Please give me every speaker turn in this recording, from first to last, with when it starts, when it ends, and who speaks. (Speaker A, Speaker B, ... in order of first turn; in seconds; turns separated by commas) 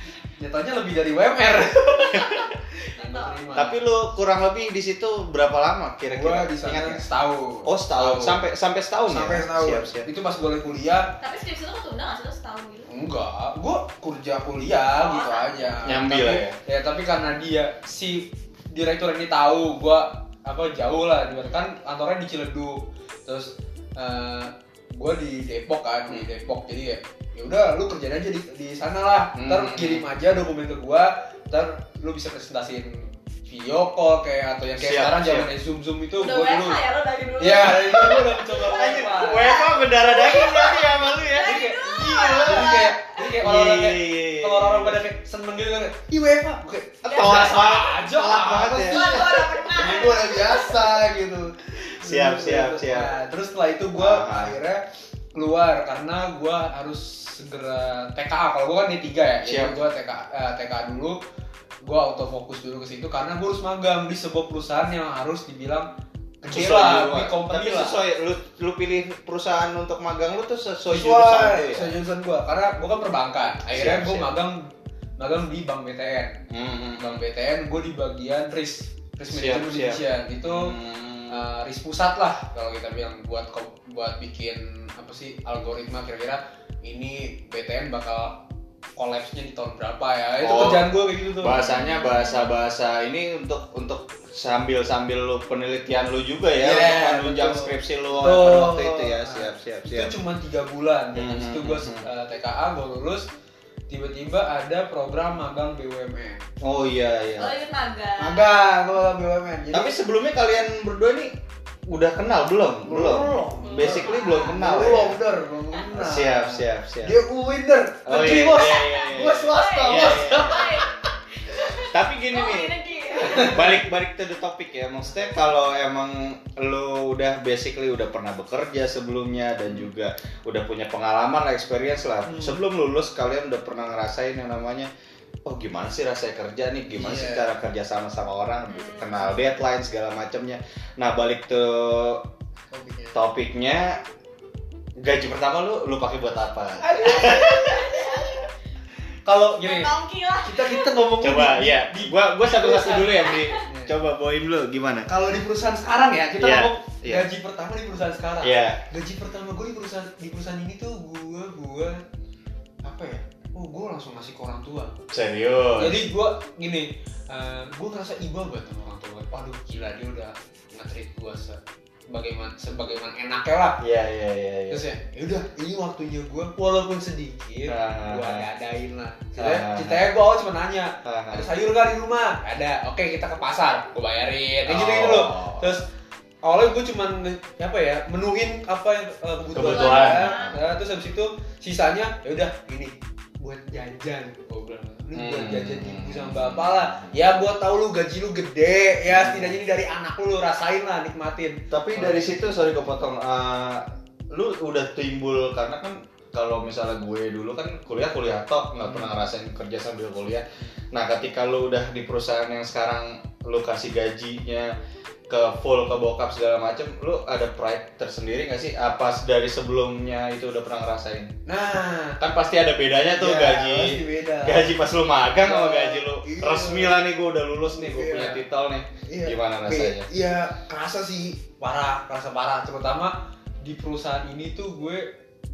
Speaker A: 0.4-3.8, Speaker B: 3.0-3.4, Speaker C: 3.5-7.0, Speaker A: 6.1-8.4, Speaker C: 7.6-10.1, Speaker A: 9.1-11.2, Speaker B: 11.2-12.9, Speaker A: 12.8-36.8, Speaker B: 15.0-15.7, Speaker C: 15.8-16.6, Speaker C: 29.3-30.1, Speaker C: 34.8-35.5, Speaker B: 36.2-43.0, Speaker A: 37.4-39.5, Speaker C: 38.5-45.0, Speaker A: 41.4-54.8, Speaker B: 47.0-47.5, Speaker C: 47.0-49.4, Speaker B: 48.9-50.7, Speaker C: 51.9-53.1, Speaker C: 54.0-54.5, Speaker A: 55.3-61.2, Speaker C: 59.4-59.8, Speaker A: 61.8-65.9, Speaker A: 66.4-68.0, Speaker C: 66.5-71.9, Speaker A: 70.9-76.4, Speaker C: 73.7-74.3, Speaker C: 76.5-77.2, Speaker A: 77.0-80.7, Speaker C: 79.3-81.4, Speaker A: 81.3-88.4, Speaker A: 89.0-91.6, Speaker C: 90.4-100.1, Speaker B: 91.5-92.5, Speaker A: 96.6-103.3, Speaker C: 101.1-102.0, Speaker A: 103.9-106.4, Speaker C: 106.6-107.5, Speaker B: 107.4-108.5, Speaker A: 108.2-109.9, Speaker C: 109.7-111.3, Speaker C: 111.9-115.2, Speaker A: 112.8-121.0, Speaker B: 113.6-114.6, Speaker C: 115.9-117.2, Speaker C: 118.0-120.8, Speaker B: 118.4-123.8, Speaker C: 121.8-134.9, Speaker A: 123.2-123.5, Speaker A: 132.2-132.6, Speaker C: 135.4-142.2, Speaker A: 136.9-137.5, Speaker B: 138.7-139.4, Speaker A: 142.7-143.2, Speaker C: 143.1-144.0, Speaker C: 145.0-147.9, Speaker A: 146.8-148.4, Speaker B: 147.3-148.4, Speaker A: 149.2-153.9, Speaker B: 149.6-150.9, Speaker C: 151.2-155.1, Speaker B: 153.3-153.6, Speaker A: 155.1-162.0, Speaker C: 156.4-157.3, Speaker C: 158.4-158.8, Speaker A: 162.8-165.0, Speaker C: 165.1-166.0, Speaker A: 165.8-173.8, Speaker C: 173.8-174.8, Speaker A: 174.7-185.8, Speaker C: 177.7-178.4, Speaker C: 179.4-180.1, Speaker C: 181.0-181.5, Speaker C: 184.7-185.8, Speaker A: 186.4-202.6, Speaker C: 189.5-190.6, Speaker B: 189.6-190.6, Speaker C: 195.1-197.2, Speaker C: 199.1-199.6, Speaker C: 201.7-214.7, Speaker A: 208.8-209.1, Speaker C: 215.3-221.3, Speaker A: 221.4-222.2, Speaker C: 222.2-230.1, Speaker A: 223.1-224.7, Speaker A: 225.4-227.0, Speaker A: 227.7-228.4, Speaker A: 229.1-235.1